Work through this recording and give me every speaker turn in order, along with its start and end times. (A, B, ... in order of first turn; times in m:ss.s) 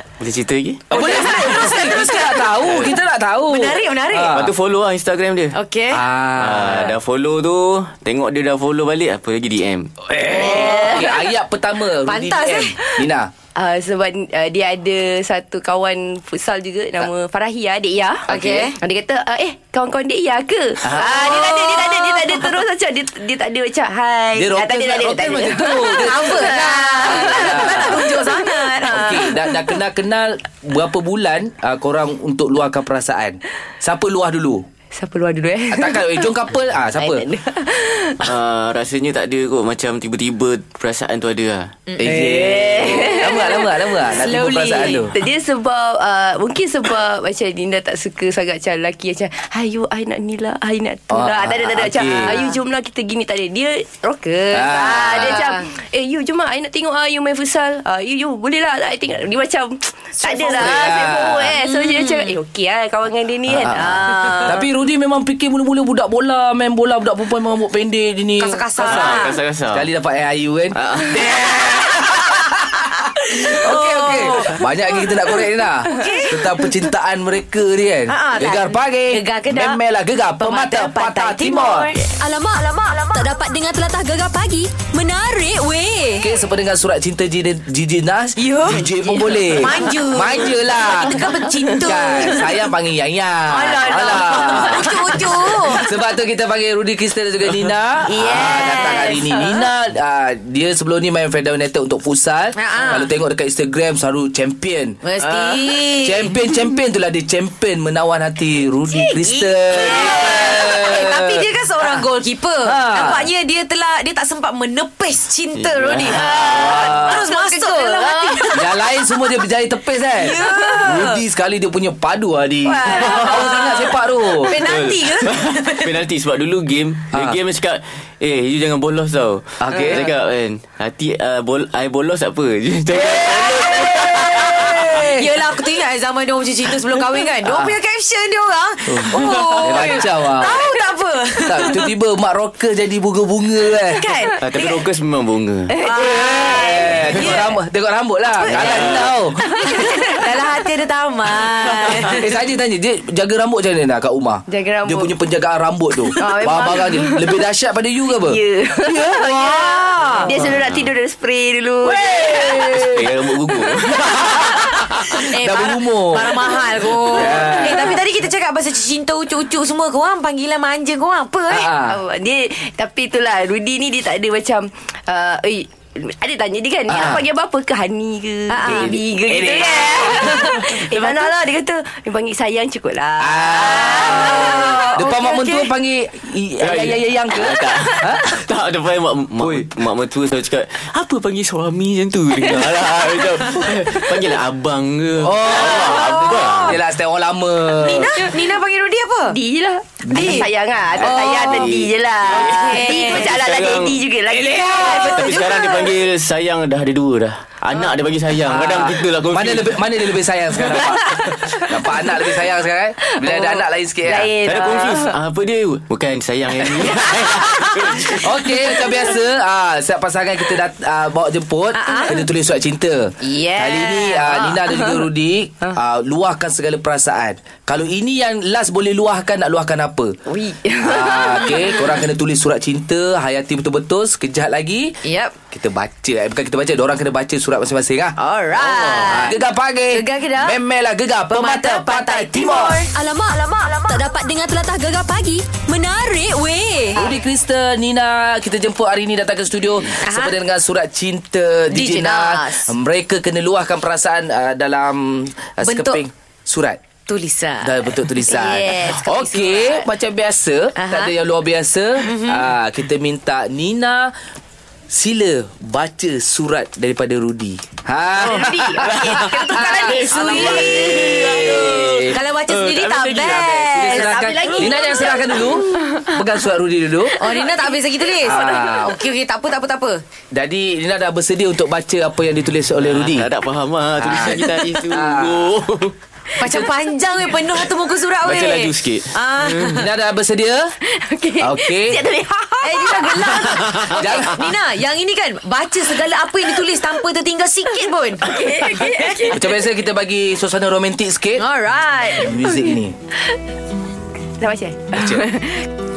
0:00.2-0:00.9 A
0:00.9-0:02.8 B
0:00.9-0:04.5 C
0:03.5-0:04.4 B
0:04.3-0:05.6 A
0:05.5-0:06.0 B
0:05.9-0:07.0 C
0:06.4-0:09.9 A
0:10.1-0:13.3 C
0:10.3-0:11.1 B
0:10.3-0:11.2 D
0:12.0-0:12.8 B
0:13.6-0:29.6 D
0:18.3-0:18.7 C
0:18.3-0:18.8 B
0:20.8-0:21.5 C
0:21.0-0:22.5 B
0:24.4-0:28.2 C
0:25.9-0:29.2 B
0:28.8-0:34.6 C
0:34.9-0:36.3 D
0:35.7-0:37.2 C
0:37.0-0:38.3 D
0:38.2-0:41.8 A
0:41.9-0:43.5 B
0:42.0-0:45.1 C
0:42.0-0:43.7 D
0:44.1-0:45.1 B
0:45.1-1:04.6 D
0:51.1-0:52.4 C
0:52.2-0:52.6 B
0:54.5-0:55.5 C
0:54.7-0:55.6 B
1:00.2-1:00.8 B
1:00.6-1:01.6 C
1:01.6-1:02.4 B
1:03.5-1:03.8 C
1:03.7-1:04.6 B
1:04.4-1:21.9 C
1:08.4-1:09.4 B
1:08.8-1:09.9 A
1:10.8-1:11.2 A
1:13.4-1:16.7 B
1:18.1-1:19.8 B
1:20.4-1:22.0 B
1:22.2-1:26.3 E
1:26.2-1:31.2 C
1:28.4-1:32.6 B
1:31.6-1:31.9 D
1:31.8-1:35.1 C
1:33.5-1:35.9 B
1:34.8-1:35.1 D
1:35.7-1:45.0 C
1:38.0-1:39.5 B
1:42.6-1:43.1 B
1:45.0-1:46.4 B
1:46.0-1:52.0 C
1:48.9-1:59.1 B
1:52.6-1:53.3 C
1:55.6-1:56.9 A
1:56.2-1:56.6 D
1:56.5-1:57.3 C
1:57.3-1:58.5 D
1:58.5-2:04.6 C
2:00.1-2:01.2 B
2:02.6-2:06.0 B
2:03.0-2:03.3 A
2:04.6-2:15.0 A
2:07.1-2:07.4 C
2:09.6-2:10.1 C
2:12.9-2:15.3 C
2:13.6-2:14.0 B
2:14.9-2:21.9 B
2:17.4-2:17.8 C
2:18.9-2:20.6 C
2:19.2-2:19.8 A
2:21.5-2:24.0 C
2:23.9-2:24.7 B
2:24.4-2:25.7 A
2:25.7-2:27.4 D
2:25.8-2:27.5 B
2:26.0-2:29.4 C
2:28.4-2:32.3 B
2:28.5-2:29.1 A
2:29.5-2:30.3 D
2:31.9-2:32.2 A
2:32.2-2:39.8 C
2:34.5-2:35.1 D
2:36.2-2:37.4 D
2:38.1-2:43.0 D
2:39.4-2:40.4 B
2:40.4-2:40.9 A
2:41.8-2:43.1 C
2:42.8-2:44.5 A
2:43.5-2:44.0 D
2:44.1-2:46.5 C
2:45.2-2:51.7 B
2:47.1-2:48.0 C
2:51.5-2:52.0 C
2:51.9-3:05.6 D
2:56.9-2:57.2 C
2:58.5-2:59.0 B
2:58.7-3:00.8 C
3:00.2-3:01.3 B
3:03.2-3:08.4 C
3:03.9-3:04.9 B
3:06.6-3:16.8 A
3:09.4-3:09.7 C
3:15.2-3:18.2 C
3:15.5-3:16.8 B
3:17.7-3:19.4 B
3:19.3-3:25.4 D
3:20.1-3:20.5 C
3:20.1-3:20.5 B
3:21.0-3:21.7 C
3:21.0-3:21.7 B
3:21.1-3:24.0 A
3:22.3-3:23.4 B
3:24.4-3:25.1 C
3:24.8-3:25.9 B
3:24.9-3:29.9 A
3:28.5-3:34.3 C
3:33.2-3:35.2 D
3:34.4-3:38.3 A
3:38.2-3:50.2 C
3:41.8-3:42.2 B
3:43.2-3:45.1 D
3:50.3-3:51.8 D
3:50.8-3:55.0 C
3:55.0-3:55.4 B
3:55.5-4:02.8 C
3:58.2-4:00.6 B
4:01.3-4:02.9 B
4:02.9-4:07.0 E
4:07.0-4:16.8 C
4:10.0-4:10.4 B
4:11.7-4:12.7 B
4:15.6-4:16.0 B
4:17.1-4:19.8 B
4:17.6-4:24.1 C
4:18.3-4:19.0 D
4:20.8-4:21.1 B
4:22.0-4:22.5 B
4:24.9-4:32.2 C
4:28.2-4:31.5 B
4:28.4-4:31.4 D
4:28.8-4:33.8 A
4:32.1-4:35.5 B
4:33.4-4:37.2 C
4:34.0-4:36.1 D
4:37.2-4:40.0 B
4:37.2-4:37.7 D
4:38.2-4:39.0 C
4:40.3-4:43.3 C
4:42.8-4:46.0 A
4:44.0-4:45.6 C
4:46.4-4:49.8 B
4:48.2-4:49.8 A
4:49.6-4:50.7 C
4:50.9-4:53.6 D
4:51.4-4:52.0 C
4:52.6-4:59.3 B
4:53.6-4:54.0 A
4:53.9-4:54.4 C
4:58.2-4:59.6 D
4:59.3-5:01.4 C
5:01.4-5:02.5 B
5:02.1-5:03.0 C
5:04.4-5:05.7 D
5:04.9-5:05.2 C